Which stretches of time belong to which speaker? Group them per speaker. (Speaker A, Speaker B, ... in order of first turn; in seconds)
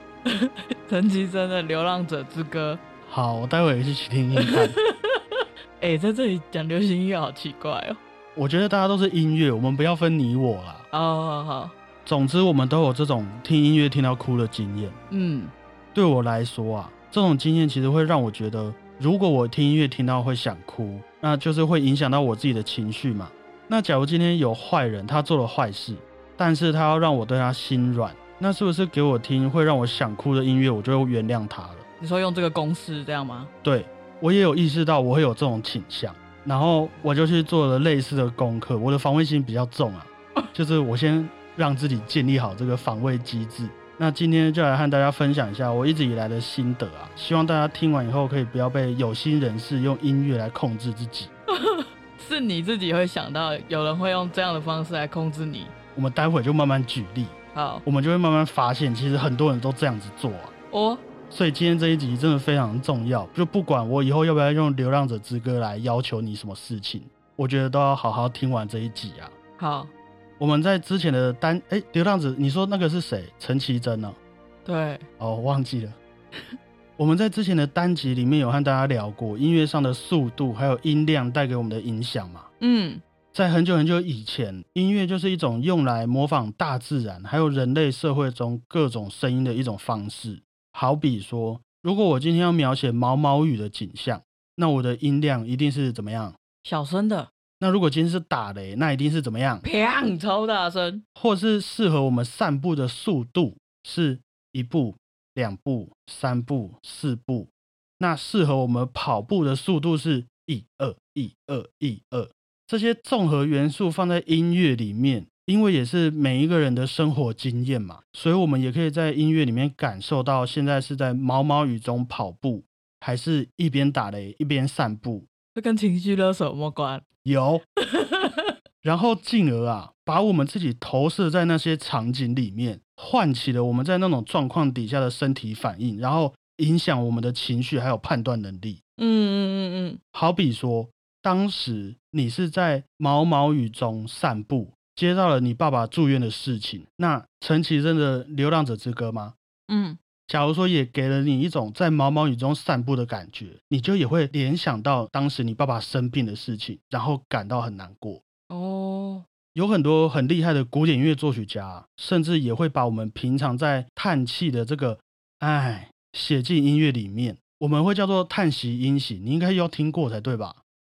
Speaker A: 0.3-2.8, 4.3-8.0, 10.9-11.7, 15.1-15.5, 32.0-33.5, 51.5-55.7, 57.5-57.8, 60.7-61.0, 69.6-69.9, 74.6-75.0, 82.6-83.0, 96.6-97.3, 99.6-101.0, 125.5-127.0, 127.8-128.5, 139.0-140.0, 149.7-150.0, 158.5-159.2
Speaker B: 3.0-4.8, 8.3-10.8, 12.0-15.0, 15.9-31.8, 33.6-51.3, 55.9-60.5, 61.3-69.3, 70.4-74.2, 75.2-76.0, 77.0-82.5, 83.3-96.4, 97.6-99.7, 101.2-125.3, 127.2-127.6, 128.8-138.8, 140.1-149.3, 150.3-158.2, 159.5-170.6